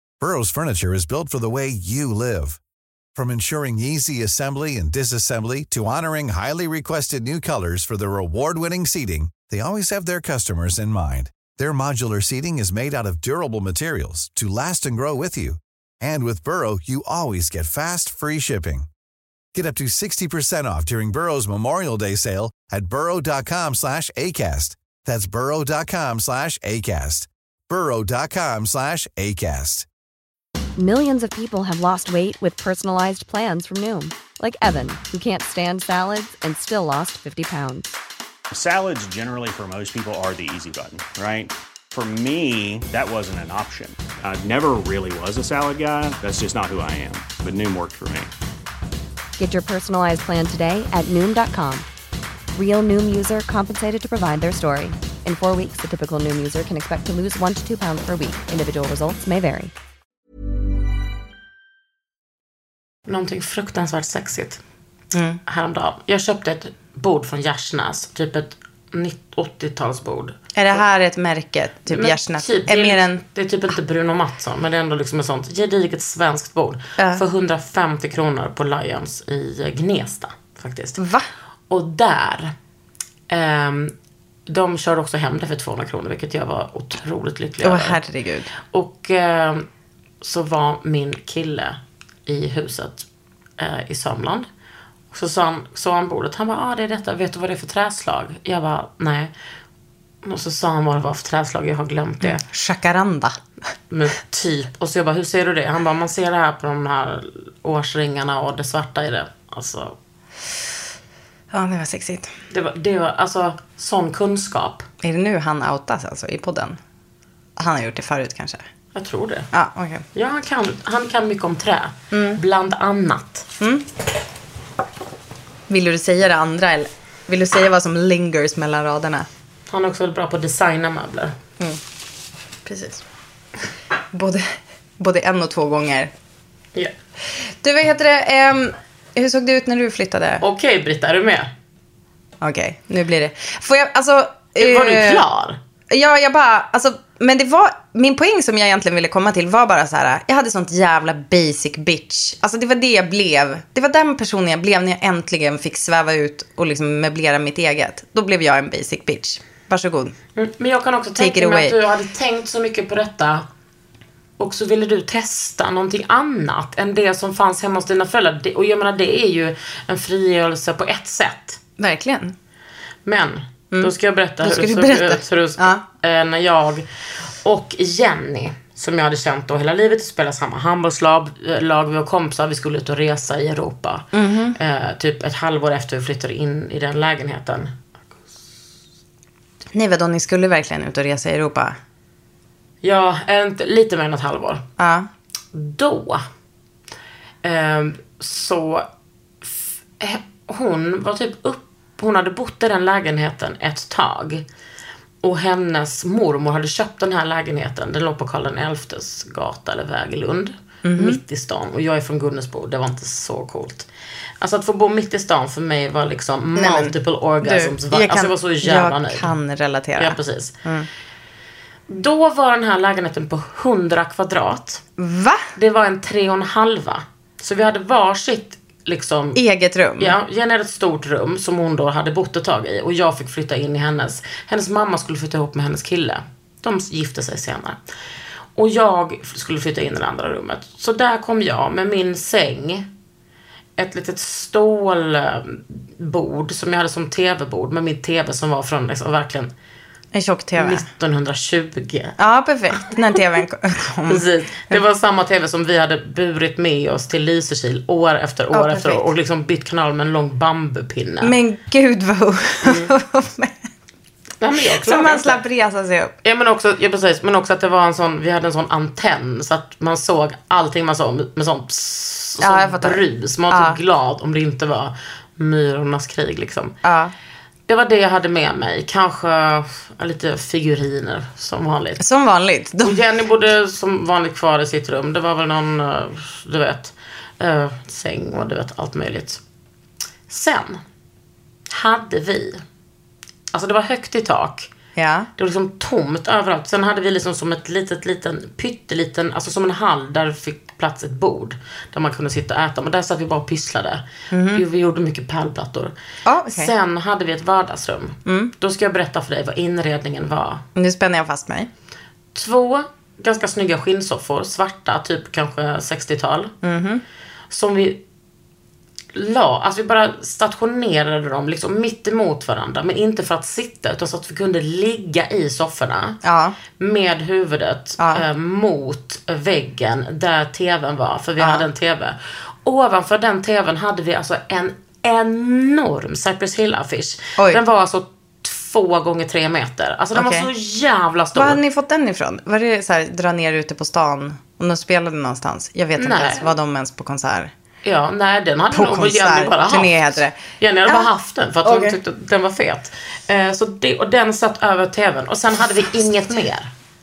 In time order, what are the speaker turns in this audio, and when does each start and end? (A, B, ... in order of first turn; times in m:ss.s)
0:00.2-0:02.6 A
0:03.2-0:18.9 A
0:19.5-0:29.9 A
0:30.8-0:38.0 B
0:38.5-0:48.3 C
0:49.4-0:51.9 B
0:52.5-0:59.7 B
1:03.1-1:04.6 D
1:05.1-1:05.4 E
1:05.5-1:10.8 D
1:10.6-1:13.2 E
1:11.9-1:21.0 D
1:21.0-1:21.3 E
1:21.7-1:22.5 D
1:23.3-1:23.9 D
1:24.5-1:28.0 D
1:27.6-1:28.5 E
1:28.7-1:29.7 D
1:30.2-1:33.1 D
1:33.6-1:34.5 D
1:35.1-1:39.3 D
1:40.2-1:42.4 D
1:42.2-1:43.4 E
1:43.9-1:50.0 D
1:51.5-1:52.3 E
1:52.5-1:54.9 D
1:55.0-1:56.8 E
1:57.6-1:58.6 E
1:59.0-1:59.5 D
1:59.5-2:00.0 E
2:00.2-2:03.5 D
2:02.1-2:02.4 E
2:03.6-2:03.8 E
2:05.7-2:09.3 E
2:09.7-2:11.3 D
2:12.7-2:13.0 E
2:14.1-2:16.1 E
2:17.6-2:20.4 E
2:20.4-2:21.5 D
2:22.4-2:25.2 E
2:24.6-2:25.6 D
2:25.9-2:40.2 E
2:40.4-2:43.4 D
2:41.2-2:41.8 E
2:44.4-2:51.6 D
2:51.8-2:52.3 E
2:53.1-2:56.8 D
2:53.7-2:55.8 E
2:57.4-3:07.7 D
3:04.1-3:04.6 E
3:09.7-3:11.8 E
3:12.8-3:14.6 D
3:14.8-3:15.1 E
3:15.5-3:16.2 D
3:17.4-3:18.9 D
3:19.4-3:24.4 D
3:25.2-3:33.9 D
3:30.8-3:31.2 E
3:34.4-3:39.3 D
3:36.6-3:40.9 E
3:40.0-3:40.6 D
3:41.9-3:44.8 D
3:45.0-3:45.4 E
3:45.6-3:49.4 D
3:49.4-3:50.2 E
3:50.0-3:57.8 D
3:58.6-4:02.9 D
4:03.8-4:09.5 D
4:10.1-4:10.8 E
4:10.6-4:12.2 D
4:12.2-4:14.8 E
4:14.1-4:21.3 D
4:18.5-4:19.0 E
4:21.2-4:23.7 E
4:22.6-4:22.9 D
4:24.4-4:25.4 D
4:24.8-4:26.1 E
4:26.2-4:36.7 D
4:32.4-4:33.8 E
4:36.8-4:37.1 E
4:37.7-4:42.0 D
4:42.0-4:43.0 E
4:42.8-4:49.4 D
4:50.3-4:50.8 D
4:51.7-4:52.6 D
4:53.5-4:54.7 D
4:55.0-4:55.3 E
4:55.4-5:05.9 D
5:04.3-5:04.6 E
5:06.3-5:06.7 E
5:06.5-5:10.6 D
5:08.3-5:08.5 E
5:10.8-5:11.7 E
5:12.3-5:16.5 D
5:16.6-5:17.0 E
5:17.5-5:18.0 D
5:19.1-5:26.2 D
5:26.2-5:26.6 E
5:26.8-5:41.6 D
5:31.4-5:31.6 E
5:40.2-5:40.5 E
5:41.4-5:47.5 E
5:46.0-5:46.5 D
5:47.8-5:56.7 D
5:48.7-5:51.1 E
5:51.6-5:52.0 E